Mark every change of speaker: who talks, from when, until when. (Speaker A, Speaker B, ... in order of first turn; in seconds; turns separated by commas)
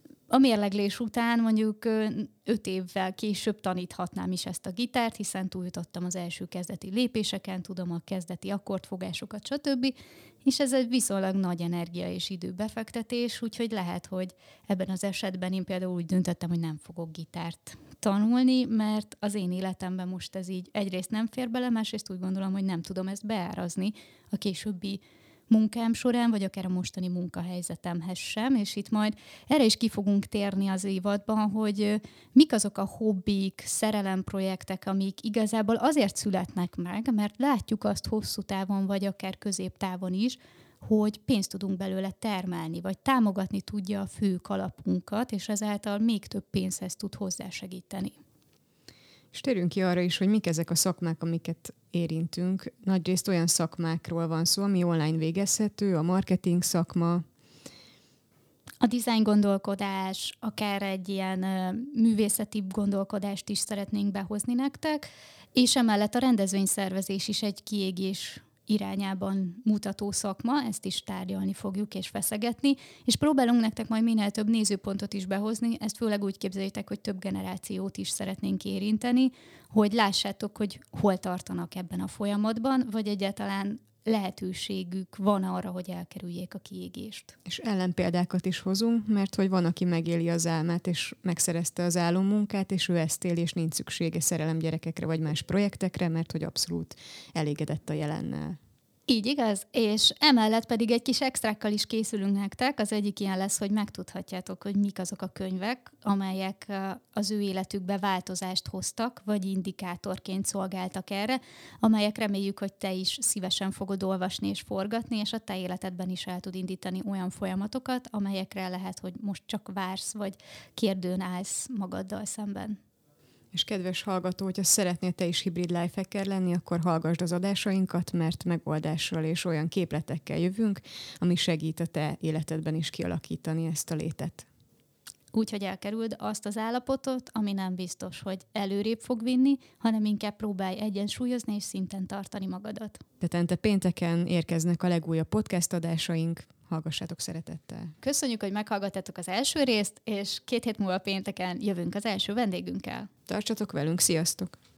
Speaker A: 0.3-48.2, Speaker B: 49.3-57.2, Speaker A: 58.8-87.3, Speaker B: 87.5-98.6, Speaker A: 99.1-122.8, Speaker B: 123.5-134.5, Speaker A: 135.3-143.0, Speaker B: 143.2-147.9, Speaker A: 148.0-153.1, Speaker B: 153.3-154.6